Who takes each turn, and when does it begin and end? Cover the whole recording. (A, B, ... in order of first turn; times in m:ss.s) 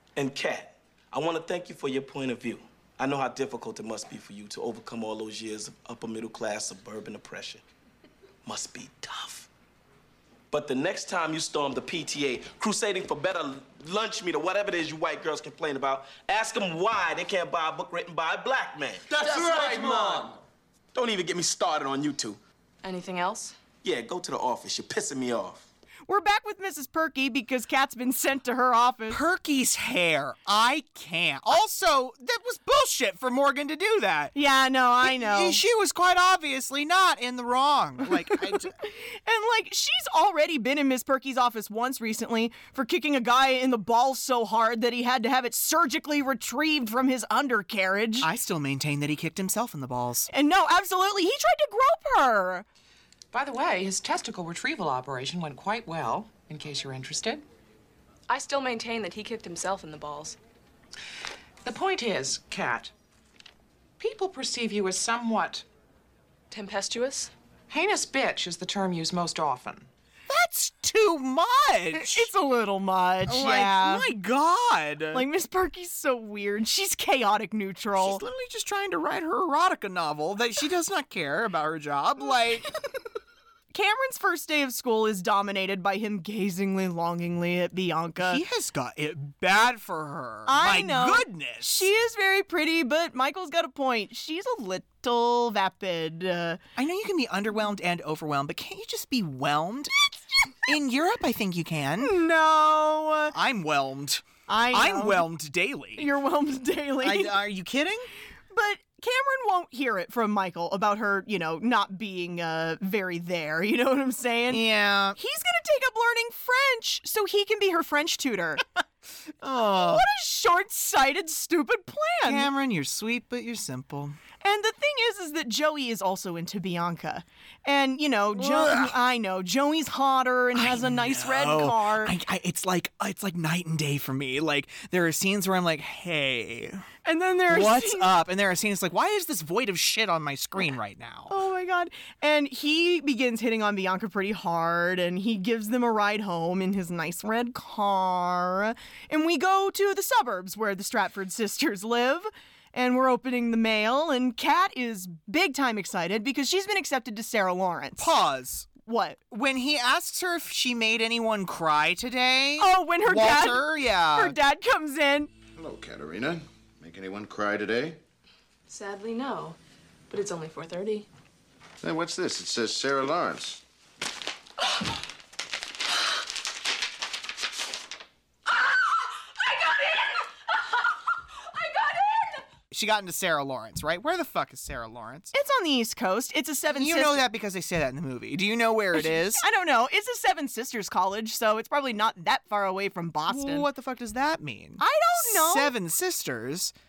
0:00.2-0:07.6 A
0:08.4-0:09.5 A
0:10.5-0:20.3 A
0:20.9-0:22.4 A
0:22.8-0:23.6 B
0:23.8-0:25.6 A
0:26.1-0:29.2 C
0:29.1-0:34.3 D
0:34.4-0:35.6 C
0:35.0-0:38.7 D
0:38.3-0:48.3 C
0:48.2-0:50.3 D
0:50.3-0:52.6 C
0:53.3-0:57.4 E
0:58.3-1:00.4 B
1:01.6-1:02.9 E
1:04.0-1:05.6 E
1:06.5-1:07.3 B
1:07.7-1:09.9 E
1:10.3-1:12.3 D
1:12.0-1:14.1 C
1:13.3-1:15.2 D
1:15.1-1:18.2 C
1:18.0-1:22.7 D
1:23.7-1:28.4 C
1:28.2-1:31.9 D
1:30.5-1:36.6 C
1:36.8-1:39.9 D
1:40.6-1:42.1 D
1:42.0-1:43.3 C
1:43.3-1:46.0 D
1:44.5-1:45.2 C
1:46.0-1:47.4 C
1:47.0-1:48.1 D
1:48.5-1:54.6 C
1:54.5-1:55.2 D
1:55.2-1:58.6 C
1:59.4-2:00.0 D
1:59.6-2:02.5 C
2:02.2-2:04.2 D
2:04.4-2:12.1 C
2:08.4-2:08.9 D
2:10.5-2:16.8 D
2:17.0-2:18.1 C
2:17.5-2:21.4 D
2:21.3-2:38.1 C
2:38.0-2:38.7 D
2:38.8-2:39.2 C
2:39.3-2:44.4 D
2:42.6-2:45.3 C
2:45.6-2:48.0 F
2:48.7-2:49.6 B
2:50.1-2:51.1 B
2:51.8-2:53.6 F
2:59.4-3:00.2 B
3:01.6-3:02.4 B
3:02.7-3:05.3 D
3:05.3-3:07.2 C
3:06.7-3:09.4 D
3:09.0-3:13.7 C
3:13.3-3:16.7 D
3:14.8-3:15.7 C